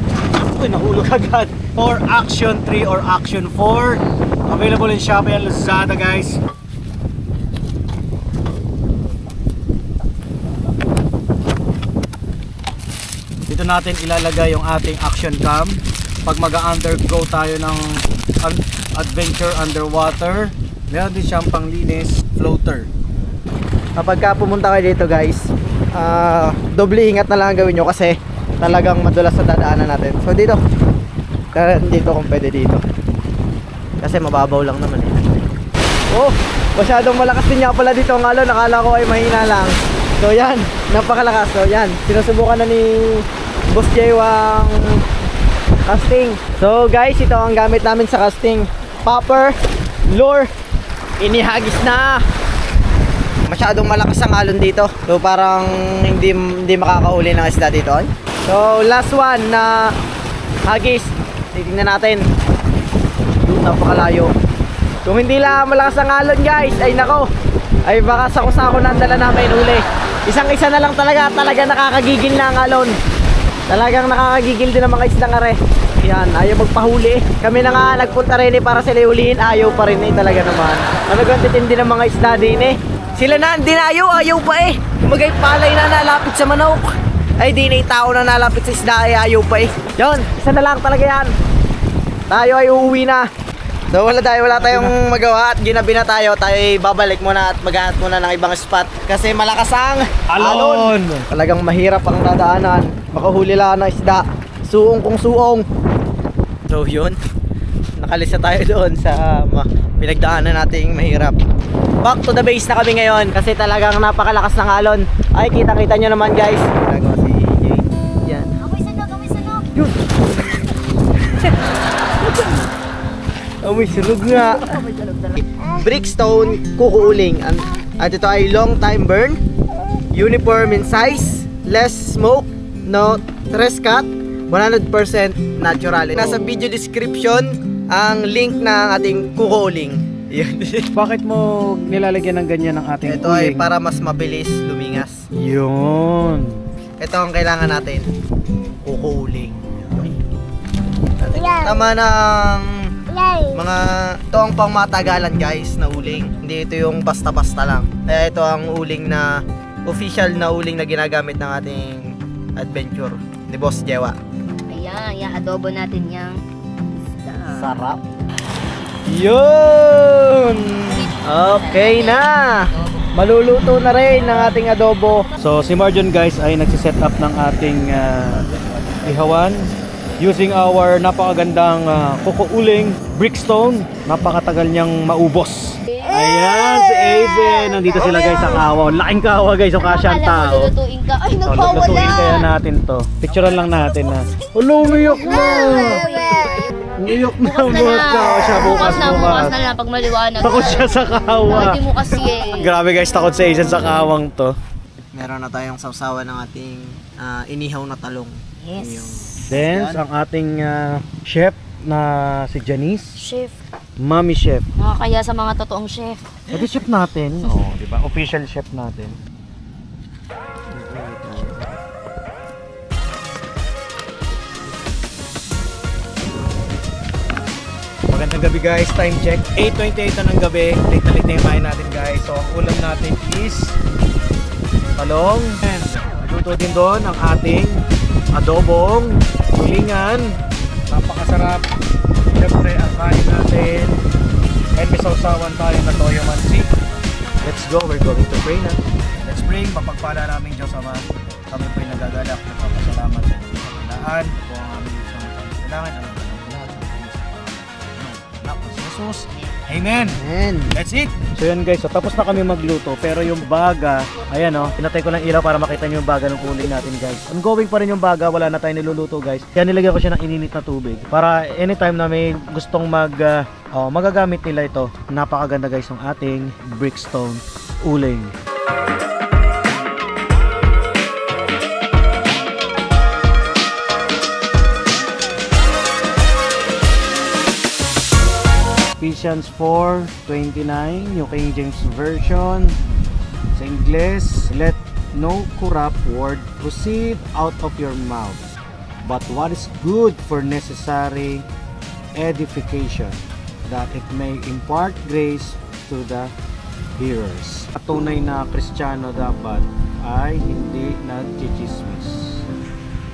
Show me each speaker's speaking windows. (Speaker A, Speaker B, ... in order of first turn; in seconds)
Speaker A: 0.3-6.4, 13.5-22.9, 94.5-95.0, 100.3-101.3, 136.2-136.5, 140.9-143.7, 145.4-146.6, 149.8-150.1, 167.5-168.0, 175.4-178.4, 179.0-179.7, 180.2-190.7, 191.4-196.0, 197.0-199.6, 200.4-201.8, 202.5-204.6, 209.5-213.2, 214.0-214.7, 216.5-219.2, 220.8-221.6, 228.1-233.8, 235.0-237.8, 238.3-240.4, 240.9-241.6, 242.4-244.0, 244.8-246.7, 247.4-278.3, 289.0-292.8, 293.6-298.4, 299.0-301.5, 302.2-306.3, 307.0-312.5
Speaker B: 24.0-30.6, 31.5-32.9, 34.0-35.4, 36.1-45.0, 45.9-49.5, 50.1-50.5, 51.2-52.2, 53.5-59.9, 60.6-62.3, 63.4-64.3, 65.0-67.3, 67.9-73.0, 73.7-91.3, 92.3-93.3, 93.9-105.6, 106.7-107.2, 108.0-111.4, 112.0-118.5, 119.7-120.1, 122.2-122.6, 123.6-124.8, 125.3-129.4, 130.1-140.8, 143.0-145.2, 147.0-148.1, 148.8-150.1, 151.2-152.7, 153.5-164.2, 169.1-175.3, 205.1-210.0, 260.3-260.6
Speaker C: 118.6-119.7, 164.7-166.4, 167.0-167.8, 170.9-173.1, 189.8-192.5, 195.4-196.6, 197.4-202.8, 208.6-209.4, 213.2-213.6, 214.8-216.2